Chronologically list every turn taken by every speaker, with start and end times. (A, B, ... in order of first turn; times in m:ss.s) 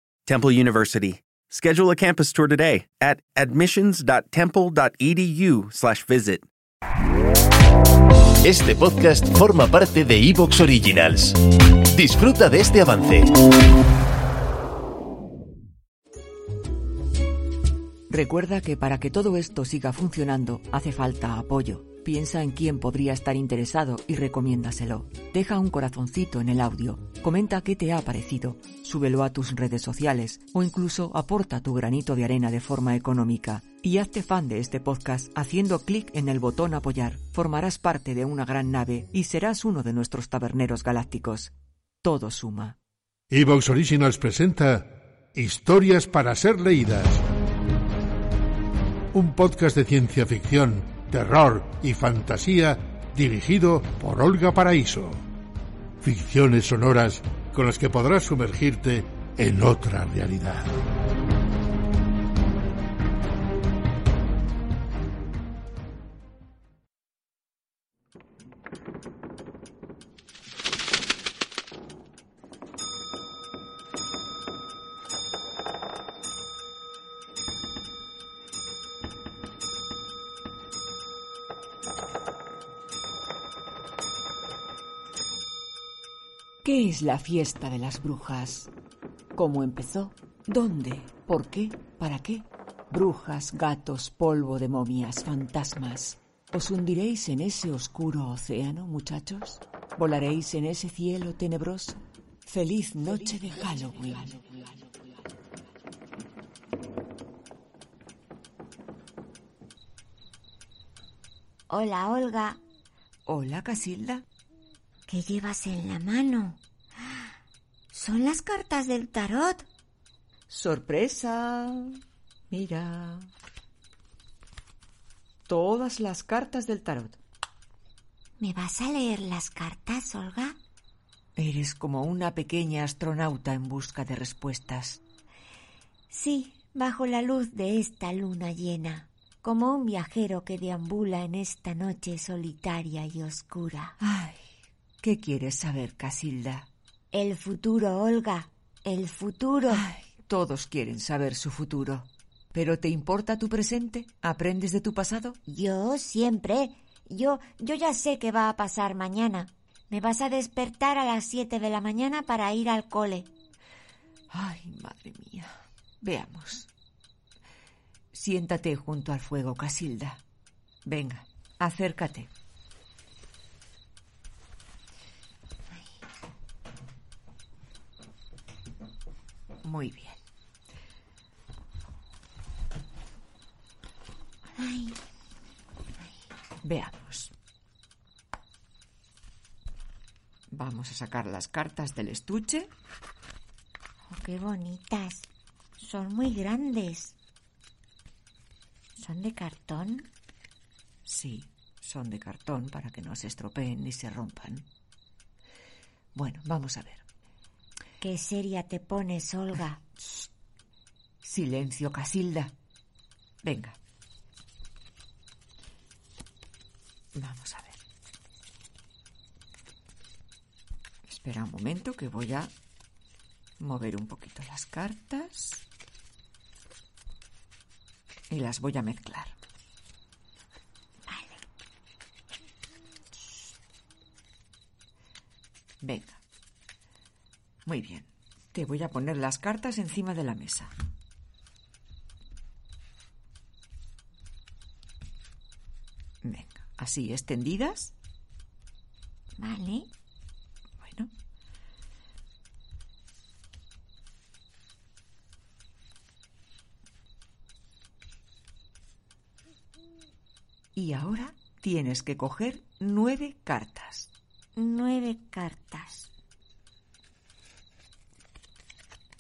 0:00.3-0:06.5 A
0:08.4-0:13.3 B
0:18.1-0:42.8 C
0:43.3-0:47.2 D
0:49.1-0:55.2 D
0:56.0-1:00.7 D
1:26.6-1:28.7 C
1:29.4-1:44.4 C
1:51.7-1:52.6 E
1:53.3-1:54.2 C
1:55.1-1:56.6 E
1:57.9-1:59.7 E
2:00.5-2:03.3 C
2:05.5-2:07.2 C
2:08.4-2:10.6 E
2:11.4-2:15.0 C
2:16.1-2:24.0 E
2:24.0-2:24.5 C
2:25.0-2:26.7 C
2:27.1-2:29.9 E
2:29.7-2:35.4 C
2:35.5-2:43.3 E
2:44.3-2:46.7 C
2:48.1-2:50.2 C
2:50.8-2:52.3 C
2:59.6-3:00.2 C
3:04.6-3:05.0 E
3:06.6-3:07.3 C
3:10.5-3:12.7 C
3:14.1-3:17.2 E
3:19.0-3:20.1 E
3:21.0-3:24.7 C
3:26.2-3:27.0 C
3:28.0-3:29.8 E
3:31.2-3:32.5 C
3:33.4-3:33.8 C
3:37.2-3:37.8 C
3:41.1-3:42.5 C
3:43.6-3:45.6 C
3:48.3-3:49.4 C
3:51.1-3:51.4 E
3:55.8-3:56.2 C
3:57.6-4:00.7 C
4:06.2-4:08.0 C
4:09.4-4:09.9 E
4:10.8-4:11.1 C
4:20.8-4:24.1 C
4:24.6-4:26.1 E